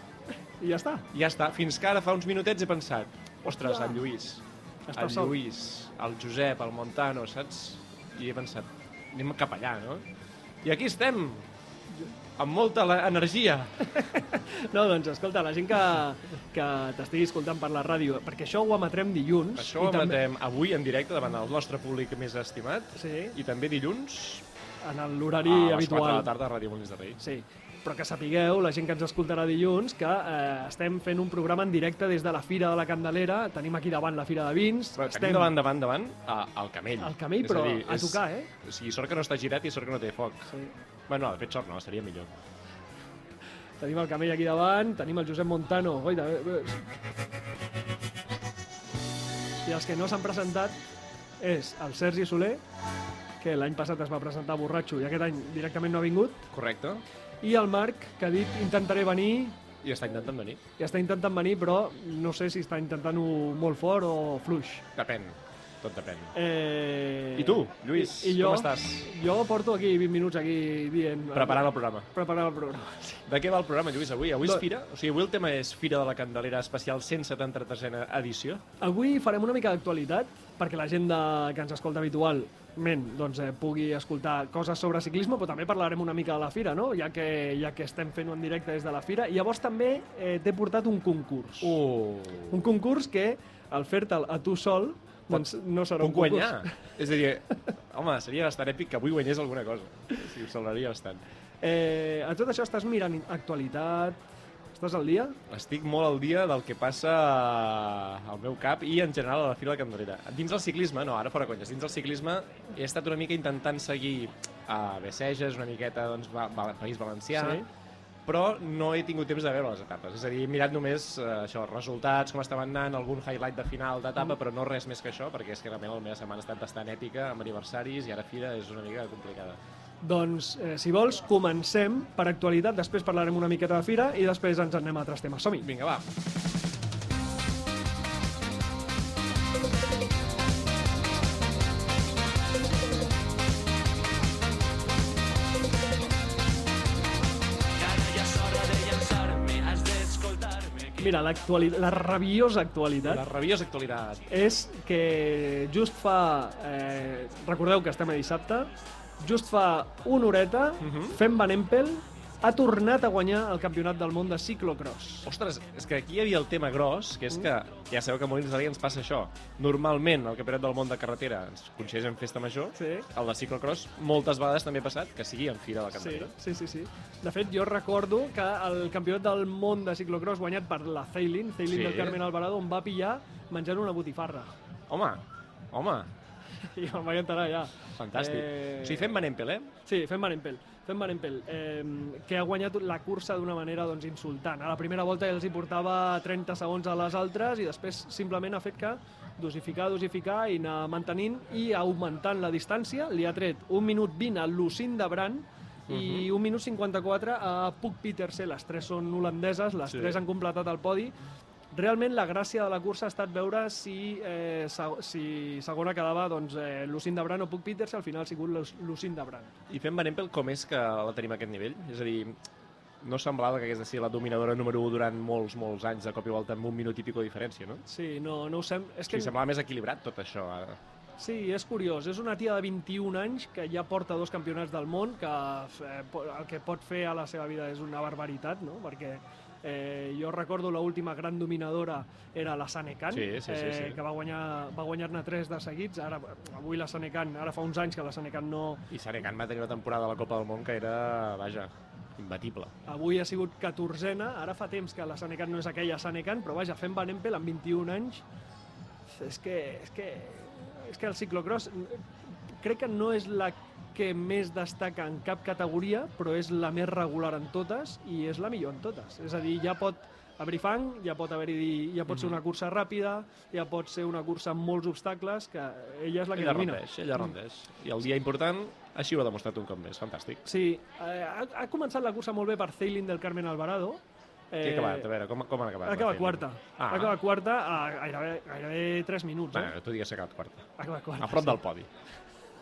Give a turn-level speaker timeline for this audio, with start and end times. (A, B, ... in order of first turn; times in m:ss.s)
0:00.6-0:01.0 A
0:01.1-0:04.4 B
0:03.5-0:04.0 A
0:04.9-0:05.4 A
0:05.0-0:10.0 B
0:10.6-0:11.5 B
0:12.4-0:13.9 B
0:13.9-0:20.2 A
0:19.6-0:24.4 B
0:23.0-0:23.4 A
0:24.8-0:26.3 A
0:25.4-0:27.2 B
0:27.2-0:35.5 A
0:35.0-0:40.5 B
0:37.0-0:38.5 A
0:41.1-0:42.3 B
0:43.8-0:46.8 A
0:49.7-0:50.8 A
0:51.4-0:52.6 A
0:53.4-0:56.5 A
0:56.5-0:57.0 B
0:57.4-0:59.6 A
0:59.8-1:00.6 B
1:00.8-1:04.8 A
1:05.0-1:06.3 B
1:06.3-1:13.2 A
1:07.4-1:09.1 B
1:11.4-1:12.1 B
1:13.3-1:18.6 B
1:18.8-1:31.8 A
1:31.6-1:32.7 B
1:32.5-1:36.7 A
1:36.0-1:41.2 B
1:41.6-1:44.2 A
1:44.8-1:45.4 A
1:45.5-1:57.6 B
1:57.4-1:57.6 A
1:58.3-2:09.6 B
2:10.0-2:15.7 A
2:15.6-2:16.0 B
2:27.8-2:31.0 B
2:31.0-2:33.2 A
2:33.0-2:34.2 B
2:34.3-2:45.3 A
2:40.8-2:41.2 B
2:45.3-2:56.3 B
2:52.8-2:53.1 A
2:55.9-3:04.5 A
3:01.7-3:02.2 B
3:04.9-3:06.1 B
3:06.7-3:09.1 A
3:08.0-3:09.7 B
3:09.8-3:31.2 A
3:25.9-3:26.3 B
3:29.9-3:30.2 B
3:31.7-3:39.5 A
3:39.7-3:42.4 B
3:43.0-3:47.8 B
3:47.9-3:49.4 A
3:49.1-3:50.8 B
3:51.2-4:08.8 A
4:03.1-4:04.0 B
4:08.9-4:12.7 B
4:12.9-4:18.2 A
4:19.1-4:37.3 A
4:32.1-4:32.4 B
4:36.4-4:40.4 B
4:40.4-4:45.1 A
4:44.6-4:47.1 B
4:45.8-4:49.7 A
4:49.5-4:50.7 B
4:50.8-4:51.6 A
4:51.2-4:51.9 B